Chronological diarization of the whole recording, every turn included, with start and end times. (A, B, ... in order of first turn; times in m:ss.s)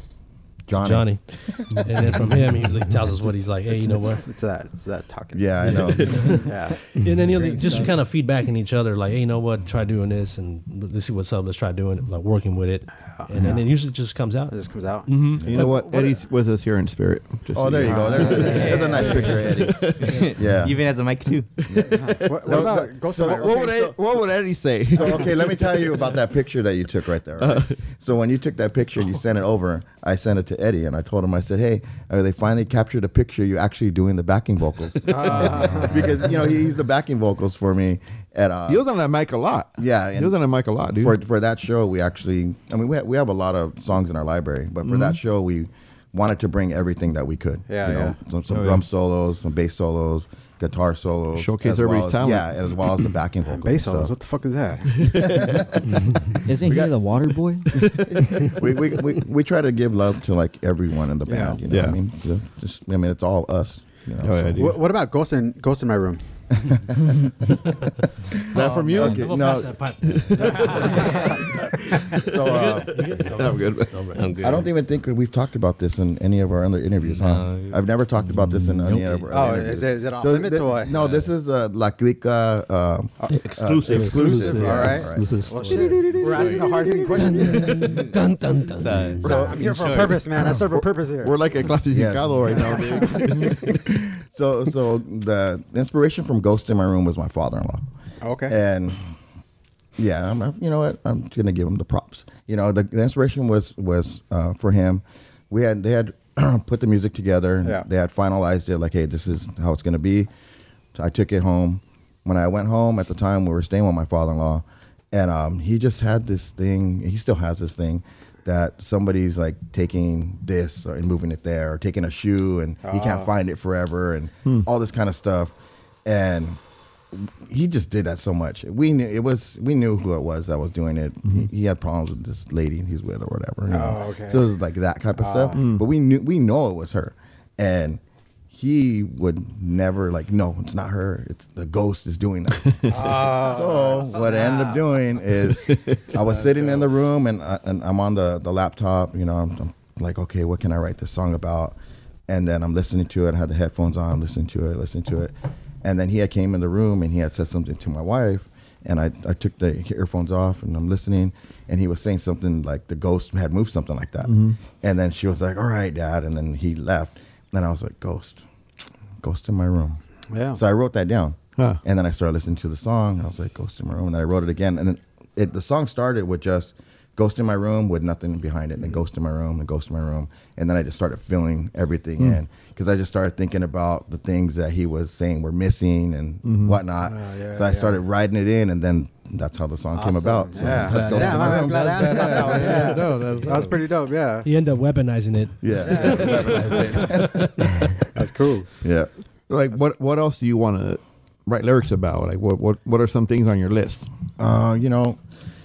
0:00.7-0:01.9 A
0:00.7-0:04.2 B
0:03.2-0:06.8 C
0:05.3-0:06.4 A
0:05.6-0:14.5 B
0:07.1-0:07.9 D
0:13.1-0:13.9 C
0:14.5-0:16.2 C
0:15.0-0:15.5 B
0:15.4-0:15.8 A
0:15.4-0:18.7 E
0:17.5-0:20.8 A
0:17.8-0:19.0 C
0:18.4-0:21.5 F
0:18.8-0:19.4 B
0:19.4-0:20.2 E
0:21.6-0:25.4 E
0:21.7-0:23.9 A
0:21.9-0:23.8 C
0:24.9-0:38.8 A
0:24.9-0:25.6 C
0:27.4-0:27.8 E
0:35.1-0:36.1 C
0:38.7-0:41.2 E
0:39.8-0:40.4 A
0:40.9-0:54.1 A
0:44.8-0:45.2 E
0:47.7-0:48.2 C
0:48.5-0:48.8 E
0:51.3-0:53.1 E
0:53.5-0:55.5 C
0:55.0-0:55.6 E
0:55.2-0:55.9 A
0:56.4-0:57.8 D
0:56.7-0:56.9 A
0:57.7-0:58.5 E
0:58.1-1:04.8 A
1:01.3-1:01.6 C
1:01.7-1:02.0 E
1:04.2-1:04.8 E
1:04.6-1:06.2 C
1:06.6-1:07.3 A
1:08.5-1:09.3 E
1:08.5-1:11.5 B
1:08.7-1:09.9 A
1:10.1-1:10.9 E
1:10.4-1:11.3 C
1:12.2-1:13.1 A
1:12.4-1:14.3 B
1:13.3-1:14.1 E
1:14.1-1:14.8 G
1:14.4-1:25.8 A
1:17.0-1:17.8 F
1:19.3-1:20.9 C
1:20.9-1:21.3 F
1:23.5-1:29.9 G
1:24.4-1:28.0 C
1:26.3-1:26.7 F
1:27.8-1:28.1 F
1:28.8-1:30.2 F
1:29.2-1:29.5 A
1:29.2-1:31.4 C
1:30.4-1:33.7 E
1:31.9-1:37.8 A
1:32.5-1:33.4 C
1:38.2-1:38.6 C
1:38.5-1:39.0 A
1:40.0-1:50.3 A
1:50.9-2:05.5 A
2:02.8-2:03.3 C
2:06.0-2:06.6 A
2:07.1-2:31.8 A
2:13.7-2:14.5 C
2:15.2-2:15.6 C
2:15.5-2:15.8 E
2:22.9-2:25.0 C
2:25.5-2:26.1 E
2:26.1-2:26.9 C
2:32.3-2:48.4 A
2:44.2-2:44.6 E
2:49.2-2:50.0 A
2:50.3-2:50.6 C
2:50.6-3:13.1 A
3:06.4-3:06.8 E
3:07.0-3:08.0 C
3:09.9-3:14.5 C
3:10.6-3:13.8 G
3:14.4-3:17.9 B
3:15.6-3:17.4 A
3:15.8-3:17.1 C
3:15.8-3:17.1 G
3:18.1-3:18.7 C
3:18.8-3:19.1 A
3:19.5-3:24.1 E
3:24.4-3:25.2 A